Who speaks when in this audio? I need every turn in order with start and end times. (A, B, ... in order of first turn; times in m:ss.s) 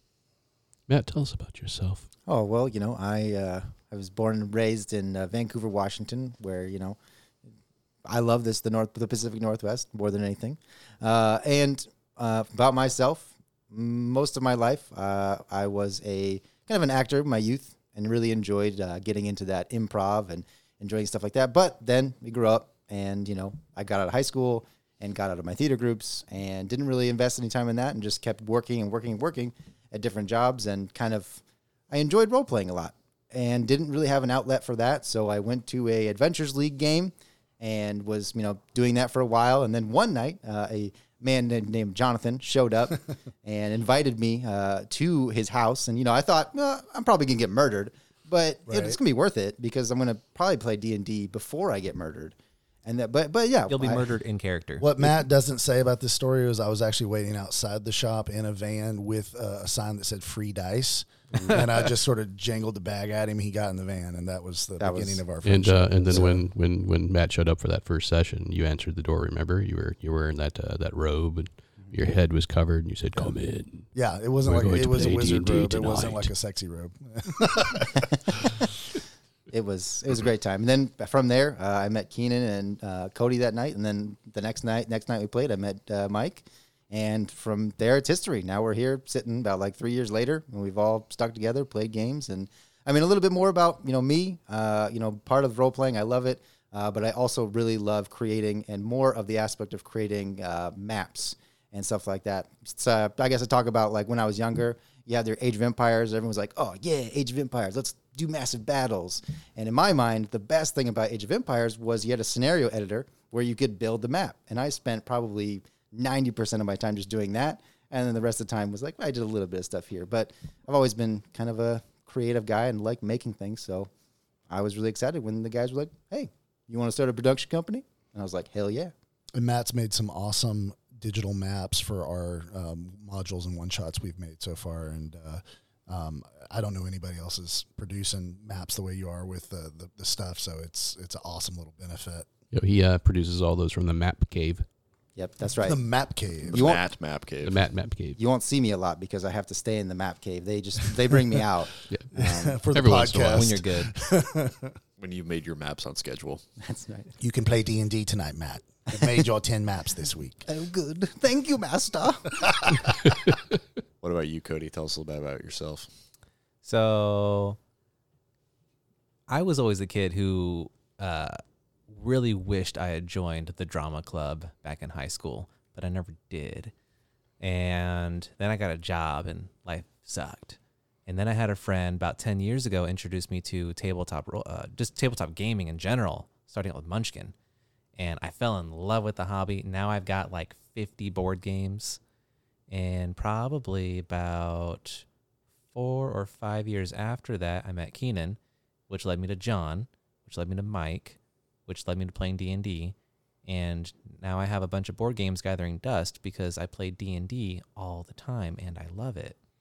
0:00.9-0:02.0 A
0:02.3-0:07.0 B
0:08.0-0:54.1 B
0:48.6-0:49.0 C
0:53.7-0:54.8 D
0:54.8-1:06.4 C
1:04.8-1:05.2 B
1:05.4-1:16.3 A
1:13.9-1:18.0 C
1:19.5-2:03.9 B
2:04.5-2:08.9 B
2:09.3-2:22.3 C
2:22.5-2:24.6 A
2:25.2-2:25.8 B
2:25.6-2:26.7 C
2:26.4-2:27.7 E
2:26.5-2:26.8 B
2:27.4-2:28.2 A
2:28.2-2:32.6 B
2:32.1-2:34.7 C
2:32.7-2:33.6 A
2:33.3-2:33.9 D
2:35.0-2:36.4 E
2:36.6-2:37.1 B
2:37.2-2:40.4 C
2:38.9-2:39.2 B
2:40.4-2:42.7 B
2:44.0-2:45.9 E
2:46.6-2:47.6 D
2:49.3-2:51.4 D
2:51.9-2:56.7 D
2:57.4-3:07.3 D
3:08.0-3:12.0 D
3:12.7-3:15.0 D
3:15.7-3:29.4 D